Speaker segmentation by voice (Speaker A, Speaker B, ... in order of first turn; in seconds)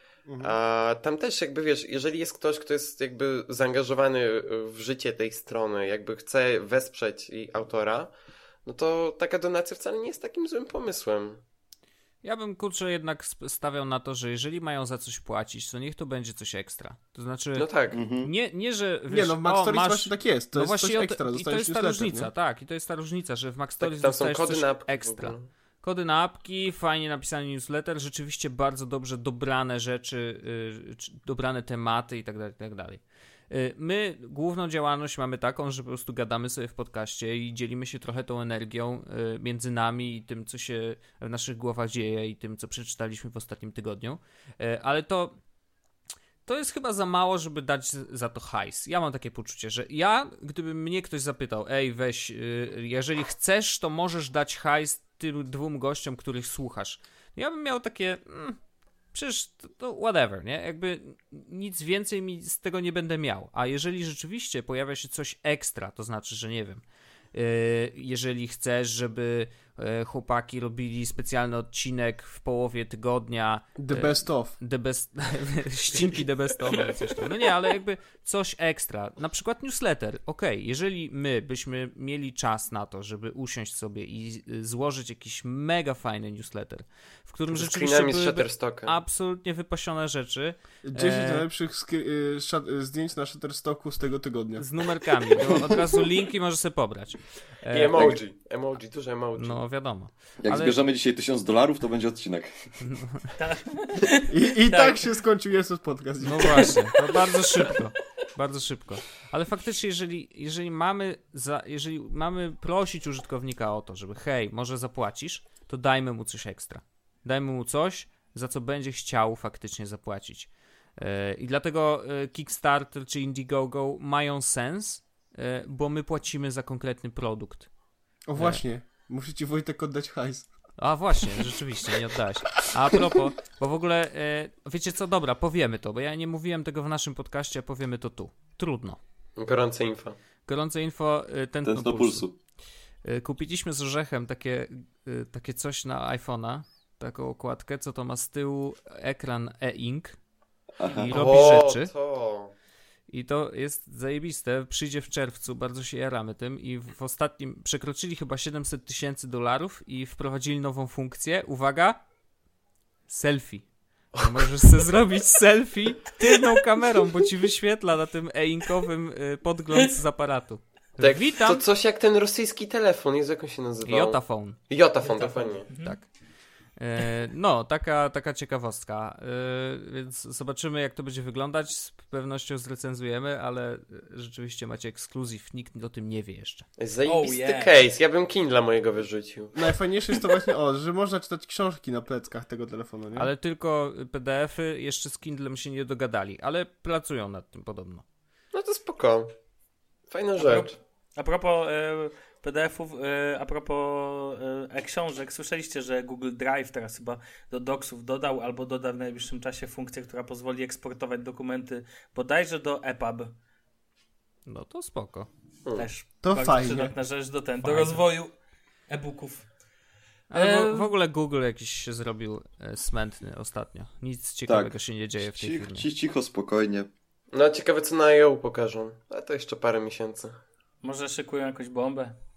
Speaker A: 0.3-0.5, 19.1-22.3, 73.8-74.6, 90.9-95.8, 104.3-106.9, 128.3-130.5, 132.6-133.0, 189.5-193.3, 216.2-216.9
Speaker B: 0.4-8.1, 8.7-11.4, 17.6-18.0, 23.8-25.5, 87.5-88.9, 97.7-99.6, 139.4-140.2, 151.1-152.5, 164.2-164.7, 171.0-175.7, 186.8-189.6, 198.5-199.3, 200.1-200.8, 227.3-230.4
Speaker C: 12.2-45.4, 46.5-58.6, 59.1-66.8, 67.3-91.5, 94.6-98.1, 99.4-100.8, 102.8-103.3, 106.2-127.7, 128.4-128.6, 130.8-139.0, 140.5-142.3, 143.0-150.2, 150.8-151.9, 153.1-162.0, 163.1-171.6, 173.8-174.6, 175.7-176.2, 176.7-186.7, 193.2-198.0, 214.5-215.3, 217.6-218.1, 220.3-225.9
Speaker D: 17.9-18.3, 100.4-102.5, 141.7-142.4, 150.8-151.2, 224.5-226.9
Speaker E: 103.4-105.0, 106.9-107.8, 175.0-176.0, 187.1-187.7, 200.4-213.3, 215.8-218.3, 218.9-219.5, 220.3-220.9, 230.8-232.1